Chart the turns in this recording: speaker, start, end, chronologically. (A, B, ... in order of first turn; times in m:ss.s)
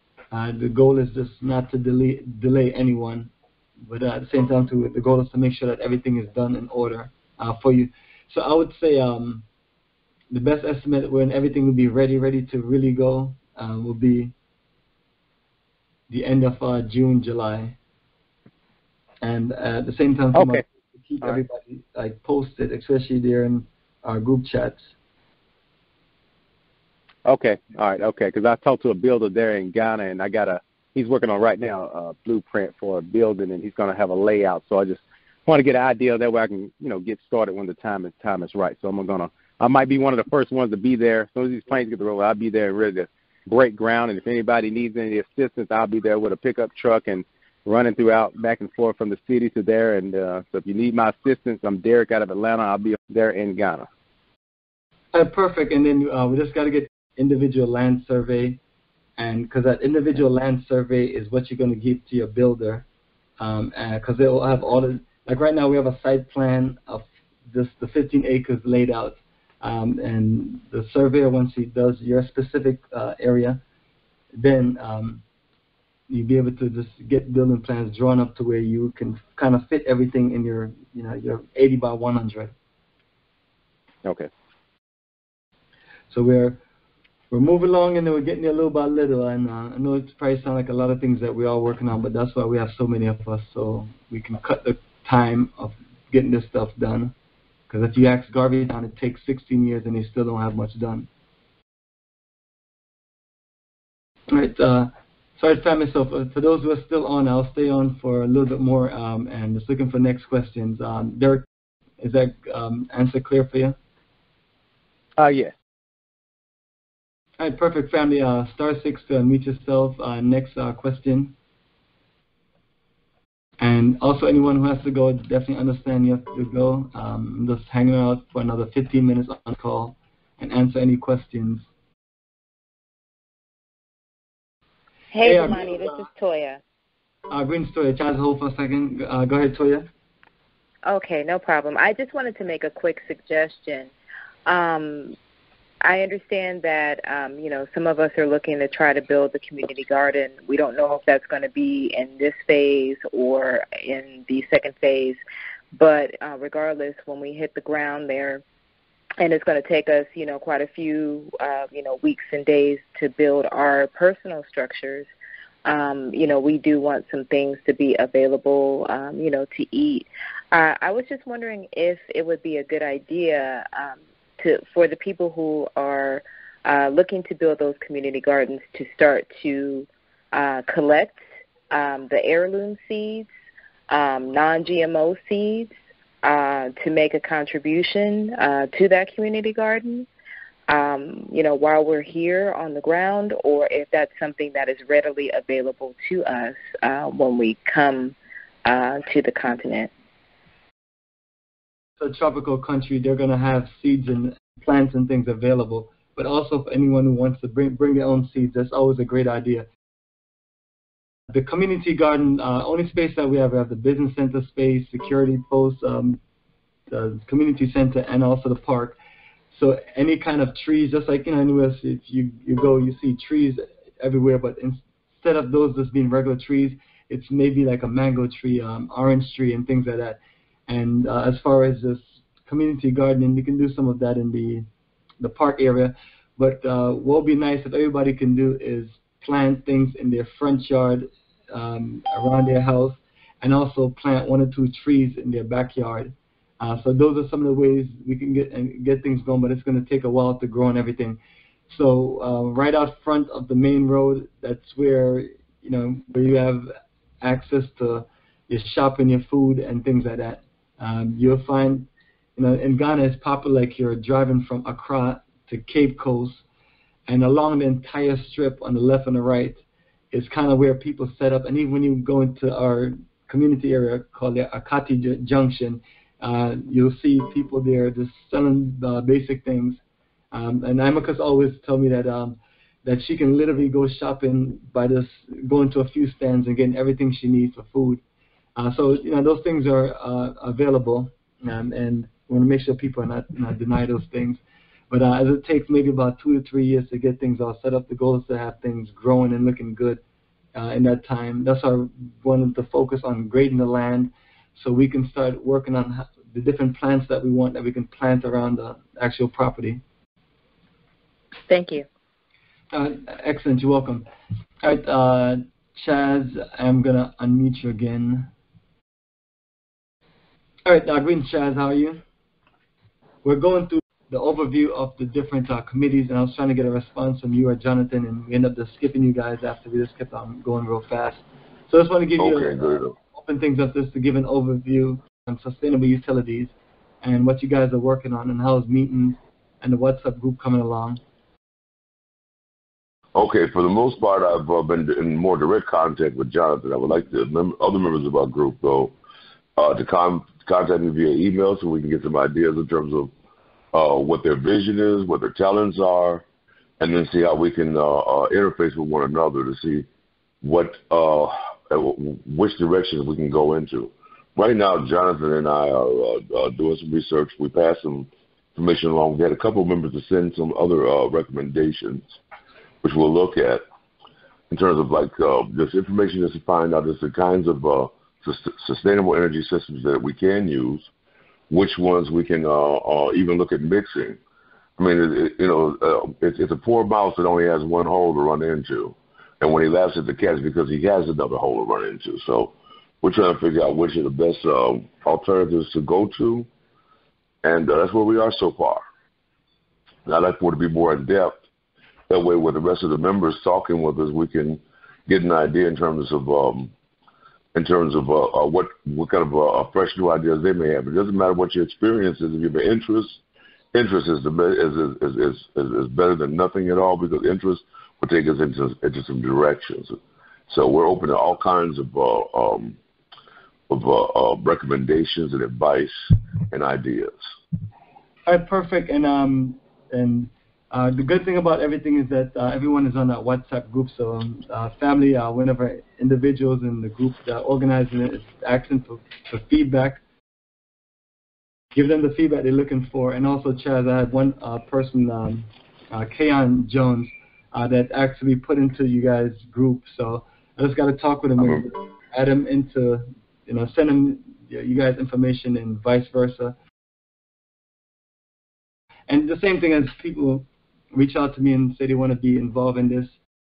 0:00.3-0:03.3 A
0:03.9-0:09.4 A
0:10.3-0:14.3 A
0:16.1-0:17.8 A
0:19.2-0:24.9 A
0:20.3-0:20.6 B
0:27.2-0:53.9 B
0:55.1-0:58.6 A
0:59.2-1:02.8 A
1:03.4-1:13.6 A
1:14.3-1:15.2 A
1:16.1-1:22.5 A
1:24.0-1:24.3 B
1:26.1-1:26.6 A
1:27.3-1:37.1 A
1:37.7-1:41.1 A
1:44.3-1:51.4 A
1:52.0-1:53.8 A
1:55.2-1:55.5 B
1:57.4-2:01.3 A
2:03.6-2:11.7 A
2:15.2-2:16.0 A
2:15.9-2:16.6 C
2:17.3-2:19.9 A
2:20.9-2:23.9 C
2:24.5-2:25.1 C
2:25.9-2:35.2 C
2:35.8-2:38.4 C
2:39.2-2:45.0 C
2:45.7-2:59.8 C
3:00.4-3:01.1 C
3:01.7-3:03.2 C
3:03.9-3:05.7 C
3:06.2-3:10.0 C
3:10.7-3:18.1 C
3:18.7-3:19.9 C
3:22.0-3:29.7 A
3:31.3-3:36.2 A
3:36.9-3:39.0 A
3:39.5-3:54.6 A
3:55.2-4:26.4 A
4:27.1-4:39.8 A
4:40.3-4:48.0 A
4:48.6-5:00.0 A
5:00.5-5:09.8 A
5:11.5-5:11.8 C
5:12.7-5:14.1 A
5:14.6-5:18.3 A
5:20.6-5:22.0 A
5:23.2-5:41.0 A
5:32.2-5:32.9 D
5:43.1-5:49.0 D
5:49.6-5:53.1 D
5:53.7-5:56.2 D
5:56.8-5:59.8 D
6:00.4-6:12.2 D
6:12.8-6:13.6 D
6:14.5-6:20.9 D
6:21.5-6:24.2 D
6:24.8-6:36.5 D
6:37.4-6:38.8 D
6:40.0-6:41.4 D
6:42.1-6:46.7 D
6:47.5-6:53.2 D
6:53.7-7:02.8 D
7:03.7-7:06.0 D
7:06.5-7:07.2 D
7:08.3-7:20.0 A
7:21.7-7:36.6 A
7:31.4-7:31.7 D
7:39.1-7:43.2 A